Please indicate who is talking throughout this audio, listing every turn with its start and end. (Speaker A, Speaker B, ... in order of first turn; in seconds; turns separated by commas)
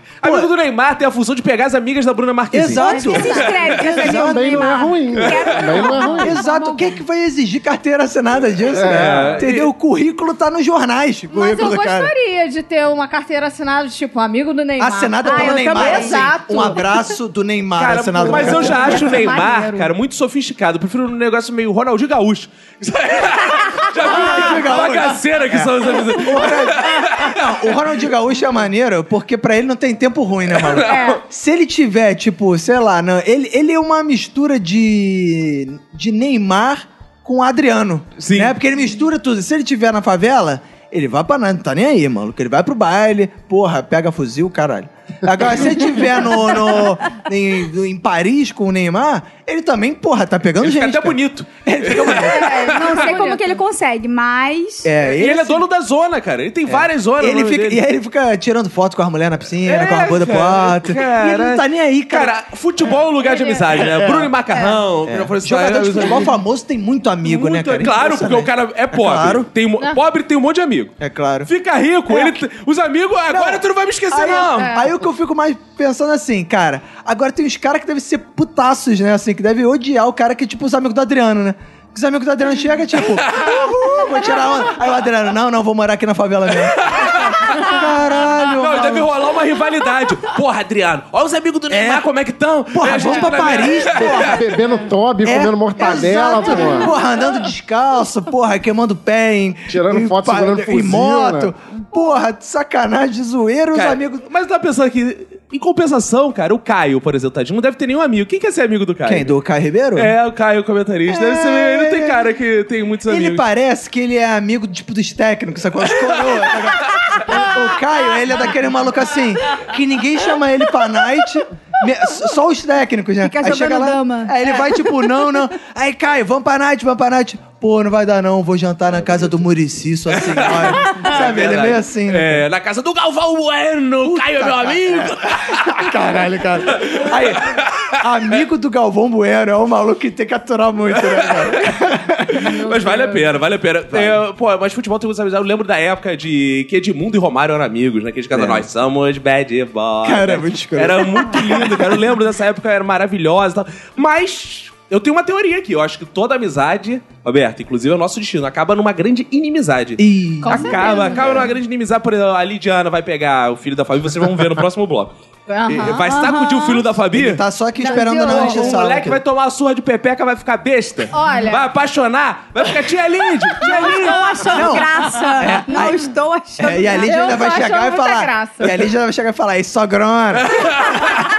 Speaker A: 0.2-3.8, Speaker B: 0.2-0.5, Speaker B: 2.5-4.7, Speaker C: 2.7-6.7, Speaker D: 2.8-4.2, Speaker E: 4.1-6.4, Speaker A: 5.2-5.9, Speaker B: 6.2-12.1, Speaker E: 8.8-9.4, Speaker A: 8.8-9.7, Speaker D: 11.3-16.9, Speaker B: 14.8-19.2, Speaker C: 15.2-16.8, Speaker A: 17.8-27.4, Speaker D: 18.2-19.9, Speaker B: 24.0-52.5, Speaker A: 30.5-31.2, Speaker D: 30.9-31.2, Speaker A: 38.2-38.5, Speaker A: 50.6-53.1, Speaker D: 52.3-53.5, Speaker C: 52.7-54.9, Speaker B: 54.8-55.6, Speaker A: 55.0-57.8, Speaker B: 56.7-62.4, Speaker A: 59.6-66.3, Speaker B: 64.0-64.3, Speaker B: 65.1-69.5, Speaker A: 67.2-70.9, Speaker B: 71.0-71.5, Speaker A: 71.5-74.8, Speaker B: 73.3-89.1, Speaker D: 74.1-74.9, Speaker A: 83.2-83.6, Speaker A: 86.7-87.7, Speaker A: 88.5-94.3, Speaker B: 91.7-92.1, Speaker B: 92.7-94.5, Speaker E: 94.0-96.9, Speaker B: 95.2-104.3, Speaker E: 99.7-101.5, Speaker A: 103.7-109.3, Speaker B: 109.0-110.2, Speaker A: 110.0-113.4, Speaker B: 111.1-112.2, Speaker B: 113.1-132.4, Speaker C: 123.2-124.9, Speaker A: 130.1-135.9, Speaker B: 134.0-142.7, Speaker A: 136.7-138.0, Speaker A: 140.9-165.1, Speaker D: 142.8-143.2, Speaker B: 143.9-144.2, Speaker B: 148.3-148.7, Speaker B: 150.0-152.0, Speaker B: 160.0-161.6, Speaker D: 160.4-161.3, Speaker D: 165.5-166.2, Speaker A: 165.7-167.4, Speaker C: 166.1-166.8, Speaker B: 167.1-169.2, Speaker C: 167.8-168.8, Speaker D: 167.9-168.5, Speaker A: 168.3-174.4, Speaker D: 171.1-171.6, Speaker C: 173.6-177.3, Speaker D: 173.7-174.7, Speaker B: 174.5-180.7, Speaker D: 177.0-178.7, Speaker A: 180.4-181.1